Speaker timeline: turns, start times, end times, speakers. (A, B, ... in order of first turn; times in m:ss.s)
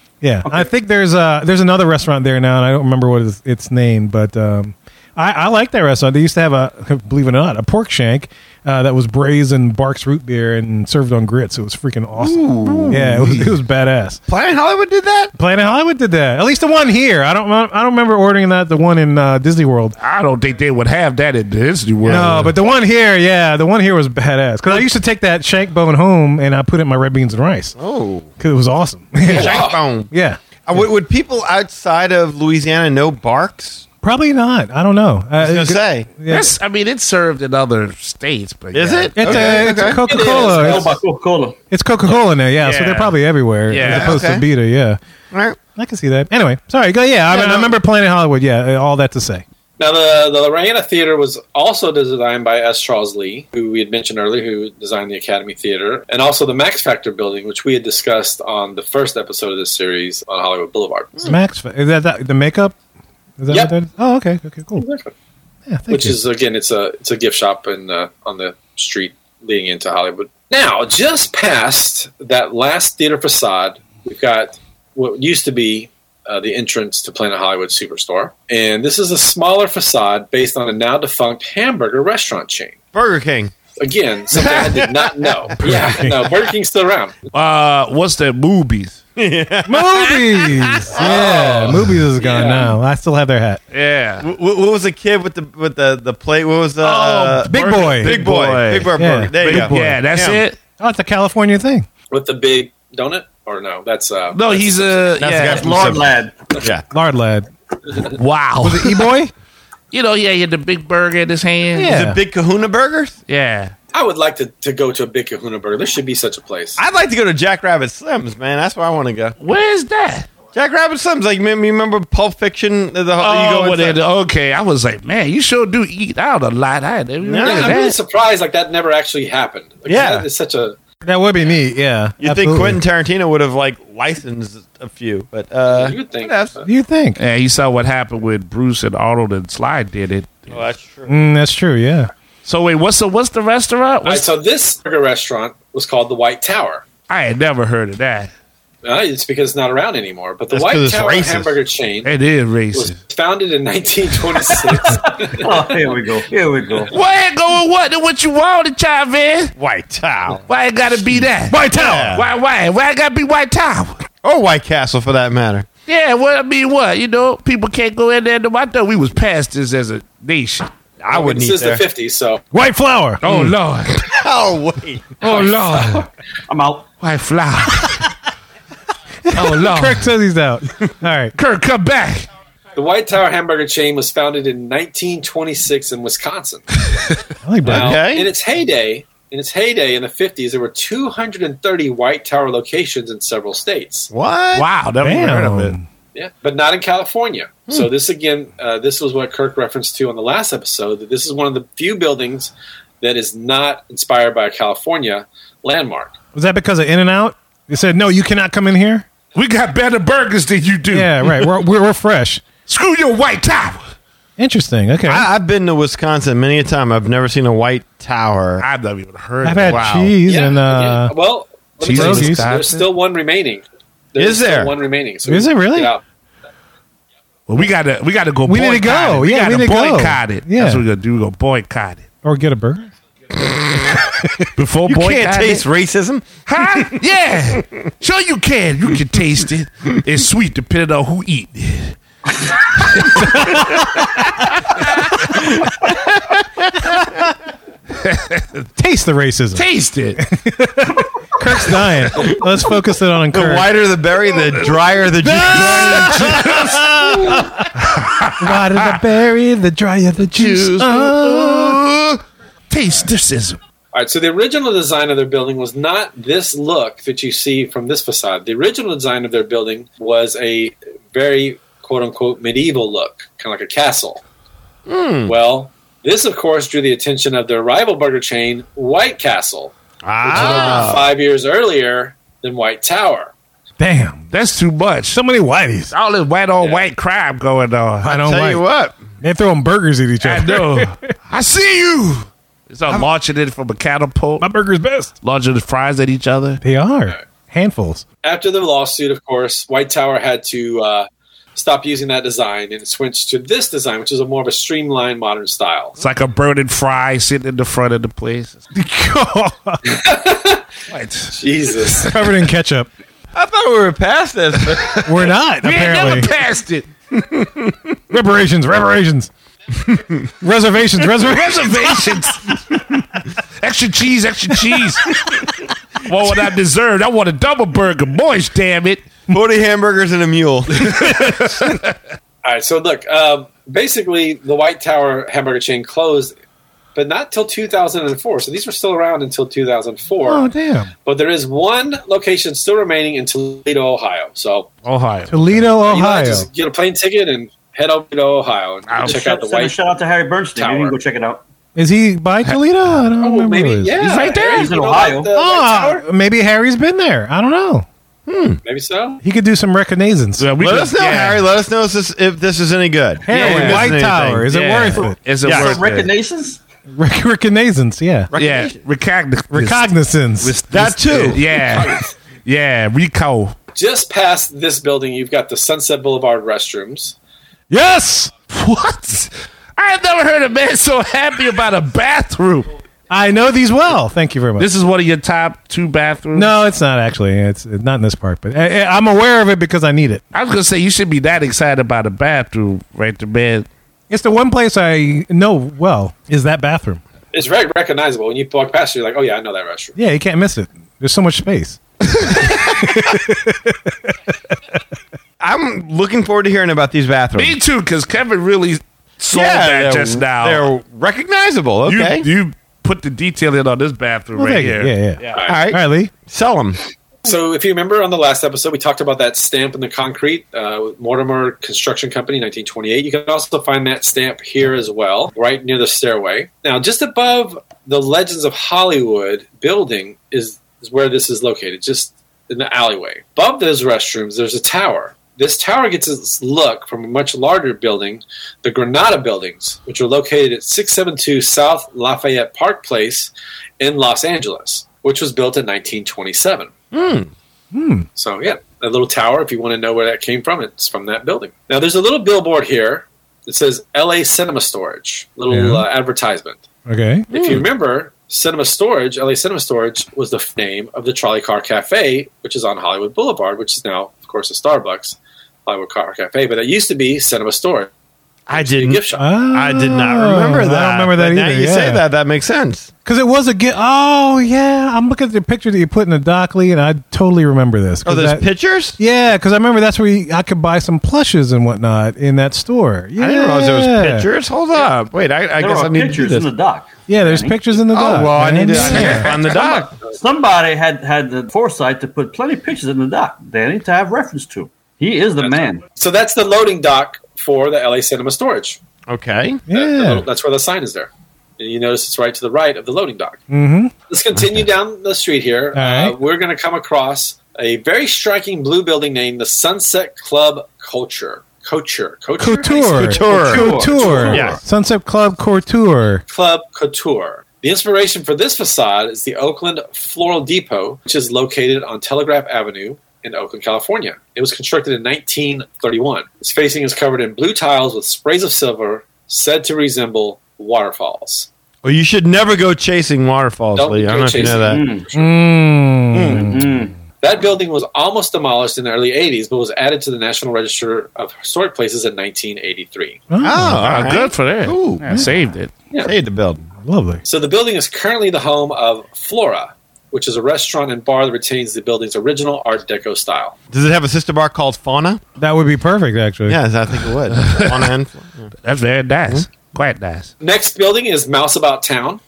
0:00.2-0:14.2 A
0:12.2-0:13.4 B
0:14.3-0:15.3 B
0:15.4-0:20.0 A
0:20.0-0:22.5 C
0:22.0-0:22.4 B
0:22.1-0:27.8 A
0:27.8-0:28.3 B
0:28.4-0:30.4 A
0:29.3-0:30.1 B
0:29.3-0:29.8 D
0:30.6-0:33.8 B
0:34.0-0:36.5 A
0:35.4-0:36.1 B
0:36.3-0:39.4 C
0:38.7-0:40.0 B
0:39.2-0:41.0 A
0:40.0-0:41.0 D
0:40.1-0:41.6 E
0:41.7-0:45.0 A
0:42.6-0:44.2 C
0:43.8-0:44.4 B
0:45.3-0:45.6 B
0:45.8-0:49.4 A
0:47.3-0:47.7 B
0:49.8-1:01.3 D
1:01.2-1:02.7 A
1:03.4-1:04.8 A
1:04.8-1:05.1 D
1:05.7-1:06.2 A
1:05.9-1:22.8 D
1:22.9-1:23.5 B
1:23.8-1:27.1 D
1:25.6-1:26.2 A
1:27.3-1:29.0 C
1:29.2-1:31.3 B
1:29.7-1:33.6 A
1:30.9-1:32.8 D
1:33.7-1:34.2 C
1:34.2-1:40.4 B
1:36.8-1:40.6 C
1:37.4-1:38.2 A
1:39.0-1:40.0 A
1:40.8-1:41.9 A
1:42.1-1:45.1 D
1:44.3-1:45.9 C
1:45.2-1:46.1 B
1:45.4-1:46.3 E
1:46.9-1:47.5 A
1:48.1-1:49.0 C
1:48.6-1:49.3 A
1:49.9-1:51.9 C
1:51.8-1:52.2 A
1:51.8-1:53.2 B
1:53.3-1:53.7 C
1:53.9-1:56.8 D
1:56.8-1:59.3 B
1:59.4-2:00.3 C
2:00.5-2:04.0 B
2:03.2-2:08.0 C
2:07.2-2:07.8 B
2:07.4-2:10.8 D
2:09.9-2:10.2 B
2:11.0-2:12.8 A
2:12.2-2:16.6 B
2:15.7-2:16.7 D
2:16.6-2:17.2 A
2:17.2-2:20.6 C
2:20.5-2:21.1 B
2:21.1-2:22.1 A
2:22.4-2:24.3 C
2:24.0-2:26.8 D
2:27.1-2:28.3 C
2:28.8-2:32.1 D
2:30.5-2:31.5 B
2:32.0-2:33.0 C
2:32.7-2:35.7 D
2:35.0-2:36.9 E
2:36.9-2:39.5 C
2:39.6-2:40.4 B
2:40.5-2:44.0 C
2:41.5-2:42.2 A
2:41.6-2:42.3 B
2:44.2-2:45.7 B
2:45.9-2:50.7 C
2:51.0-2:51.8 B
2:51.1-2:52.4 D
2:52.5-2:53.2 A
2:53.2-2:54.1 C
2:53.2-2:55.3 B
2:55.2-2:56.1 C
2:55.2-2:56.0 D
2:56.5-2:56.8 E
2:57.0-2:58.1 C
2:59.3-3:01.3 A
2:59.3-3:00.1 C
3:01.4-3:02.3 C
3:02.7-3:06.7 D
3:07.4-3:08.0 A
3:07.6-3:14.1 D
3:07.6-3:08.3 B
3:14.1-3:14.6 B
3:14.5-3:15.7 C
3:15.0-3:15.8 A
3:16.1-3:26.1 D
3:26.3-3:29.0 A
3:29.3-3:31.5 C
3:30.9-3:32.4 A
3:32.7-3:33.8 C
3:34.4-3:35.3 A
3:35.1-3:38.6 B
3:38.6-3:40.2 C
3:39.4-3:41.1 A
3:40.2-3:46.0 D
3:41.8-3:42.9 C
3:41.9-3:42.5 A
3:44.2-3:44.7 B
3:45.2-3:45.9 A
3:47.5-3:52.0 C
3:48.4-3:50.8 A
3:52.2-3:52.9 A
3:53.4-3:53.9 B
3:54.6-3:55.6 C
3:54.8-3:57.0 B
3:56.5-4:02.0 C
4:02.8-4:03.8 C
4:05.3-4:06.4 B
4:08.0-4:08.6 C
4:08.8-4:09.6 A
4:09.5-4:10.2 C
4:10.2-4:13.7 A
4:13.3-4:17.6 B
4:15.2-4:17.4 A
4:15.4-4:16.7 C
4:17.8-4:19.0 C
4:18.4-4:21.8 A
4:20.2-4:23.6 C
4:23.9-4:34.2 D
4:34.9-4:35.3 B
4:35.2-4:43.3 D
4:40.0-4:41.1 B
4:40.3-4:40.8 C
4:43.8-4:44.2 A
4:44.3-4:45.2 C
4:45.1-4:45.9 A
4:45.9-4:48.2 C
4:48.0-4:48.6 A
4:48.1-4:49.0 B
4:49.2-4:51.1 A
4:50.2-4:54.5 C
4:54.4-4:55.1 A
4:55.2-4:56.6 C
4:56.6-4:58.0 A
4:58.2-5:06.0 D
5:06.0-5:08.6 C
5:08.7-5:09.8 A
5:09.8-5:10.6 D
5:10.9-5:12.1 C
5:11.3-5:12.1 D
5:12.0-5:12.9 A
5:13.3-5:15.0 B
5:14.7-5:15.0 C
5:15.0-5:16.3 A
5:15.6-5:16.9 C
5:17.1-5:18.0 B
5:18.1-5:19.3 A
5:19.9-5:20.2 B
5:20.4-5:21.7 A
5:21.2-5:22.8 C
5:23.6-5:25.2 C
5:26.0-5:29.0 C
5:29.3-5:31.5 B
5:30.8-5:31.9 C
5:32.4-5:36.3 D
5:36.9-5:40.5 D
5:40.2-5:40.9 A
5:41.0-5:44.7 D
5:44.8-5:45.7 C
5:45.3-5:46.5 A
5:45.8-5:49.8 D
5:48.9-5:49.2 C
5:49.0-5:51.4 E
5:50.5-5:51.0 D
5:51.8-5:53.9 A
5:53.2-5:56.0 D
5:54.0-5:54.7 C
5:54.5-5:55.3 E
5:55.4-5:57.8 A
5:58.3-5:58.6 B
5:58.6-5:59.2 D
5:59.2-6:00.4 A
6:00.4-6:01.4 C
6:00.6-6:04.5 B
6:03.2-6:05.2 A
6:03.3-6:04.0 C
6:04.5-6:06.1 C
6:05.0-6:06.6 E
6:05.4-6:05.8 B
6:07.0-6:08.3 A
6:08.3-6:08.8 B
6:08.4-6:09.9 C
6:09.5-6:11.3 A
6:10.4-6:12.0 B
6:10.7-6:13.5 C
6:11.7-6:12.0 D
6:13.7-6:17.2 D
6:17.7-6:18.3 A
6:18.5-6:22.7 C
6:23.1-6:24.7 A
6:24.6-6:26.5 C
6:26.3-6:30.2 A
6:30.3-6:33.7 C
6:34.1-6:37.0 A
6:37.3-6:40.0 D
6:40.0-6:43.9 A
6:45.4-6:47.6 B
6:47.4-6:50.6 C
6:49.3-6:52.2 B
6:51.8-6:55.4 C
6:54.3-6:56.1 A
6:55.3-6:55.6 D
6:55.4-6:56.8 B
6:57.2-7:26.7 D
7:26.9-7:27.3 B
7:27.7-7:28.1 A
7:28.2-7:36.6 D
7:35.5-7:35.8 A
7:36.9-7:37.3 A
7:37.3-7:37.7 B
7:37.3-7:47.9 D
7:48.5-7:52.9 B
7:48.5-7:49.3 D
7:49.2-7:52.0 A
7:53.0-8:04.3 A
7:58.0-7:59.0 B
8:03.2-8:06.5 B
8:05.6-8:07.6 E
8:07.1-8:09.2 A
8:07.9-8:09.9 B
8:08.8-8:09.8 C
8:09.0-8:15.8 E
8:15.4-8:18.8 D
8:19.1-8:19.6 B
8:19.7-8:20.2 A
8:19.7-8:23.4 D
8:23.5-8:23.9 A
8:24.1-8:34.5 D
8:24.3-8:24.6 B
8:25.7-8:26.1 A
8:32.4-8:36.2 A
8:33.0-8:34.6 B
8:33.1-8:34.6 E
8:36.3-8:51.5 D
8:51.8-8:54.8 B
8:53.8-8:55.5 D
8:54.4-8:55.0 E
8:55.1-8:56.7 A
8:56.1-8:56.4 B
8:56.2-8:56.9 E
8:57.2-9:03.2 D
9:03.3-9:03.8 A
9:03.4-9:05.1 B
9:03.8-9:05.7 C
9:06.0-9:06.7 B
9:06.8-9:07.2 A
9:07.2-9:13.6 D
9:13.7-9:15.2 B
9:15.4-9:16.6 A
9:16.5-9:18.5 B
9:17.3-9:17.9 C
9:18.6-9:20.3 C
9:20.4-9:22.2 D